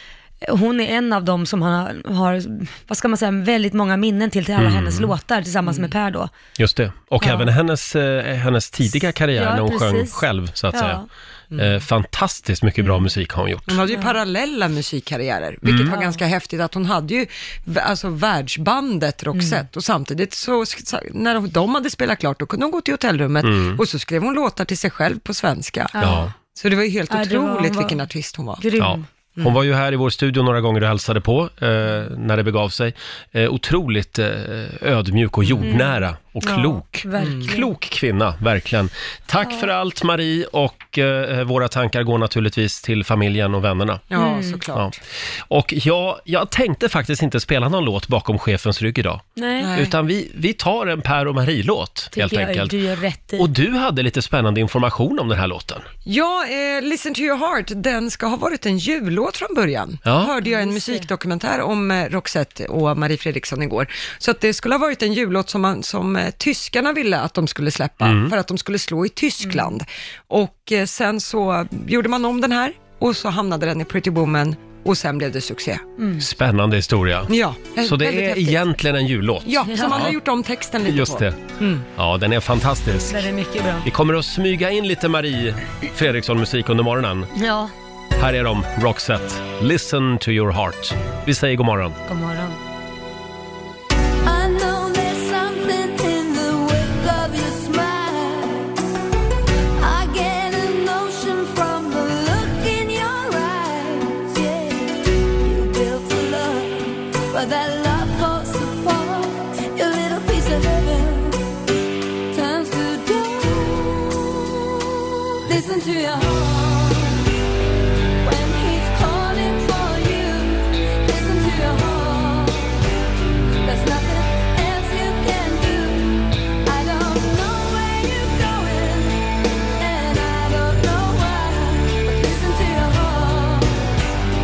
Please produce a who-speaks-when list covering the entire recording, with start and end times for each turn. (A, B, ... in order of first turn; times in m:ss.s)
0:00.4-0:06.3 A
0:04.6-0:05.2 B
0:05.6-0:05.9 C
0:06.6-0:11.0 B
0:07.2-0:07.5 A
0:09.3-0:11.0 A
0:11.6-0:13.8 B
0:13.7-0:25.9 C
0:13.9-0:14.2 A
0:15.6-0:16.0 B
0:15.9-0:16.2 A
0:19.3-0:19.6 A
0:23.4-0:23.8 B
0:26.0-0:26.3 A
0:26.0-0:26.3 B
0:26.5-0:28.6 C
0:27.1-0:28.0 A
0:28.6-0:29.0 A
0:28.8-0:44.0 B
0:35.6-0:37.7 A
0:37.2-0:37.5 C
0:39.4-0:39.7 A
0:44.1-0:45.0 C
0:44.1-0:44.6 A
0:45.5-0:52.8 B
0:49.4-0:49.7 A
0:49.6-0:49.9 C
0:52.1-0:53.5 A
0:53.4-0:55.8 B
0:56.0-1:15.9 C
1:00.0-1:00.3 B
1:00.4-1:01.1 A
1:08.0-1:08.3 B
1:09.4-1:09.7 A
1:16.0-1:16.3 A
1:16.2-1:20.2 B
1:17.3-1:18.7 C
1:19.4-1:21.8 C
1:19.6-1:20.1 A
1:20.8-1:21.4 B
1:21.9-1:23.2 B
1:23.1-1:23.9 A
1:23.8-1:27.3 B
1:27.3-1:27.7 A
1:28.2-1:32.0 B
1:32.1-1:32.6 A
1:34.2-1:38.8 D
1:39.8-1:51.5 D
1:52.3-1:57.2 D
1:58.2-2:02.8 D
2:03.6-2:09.2 D
2:09.8-2:13.9 D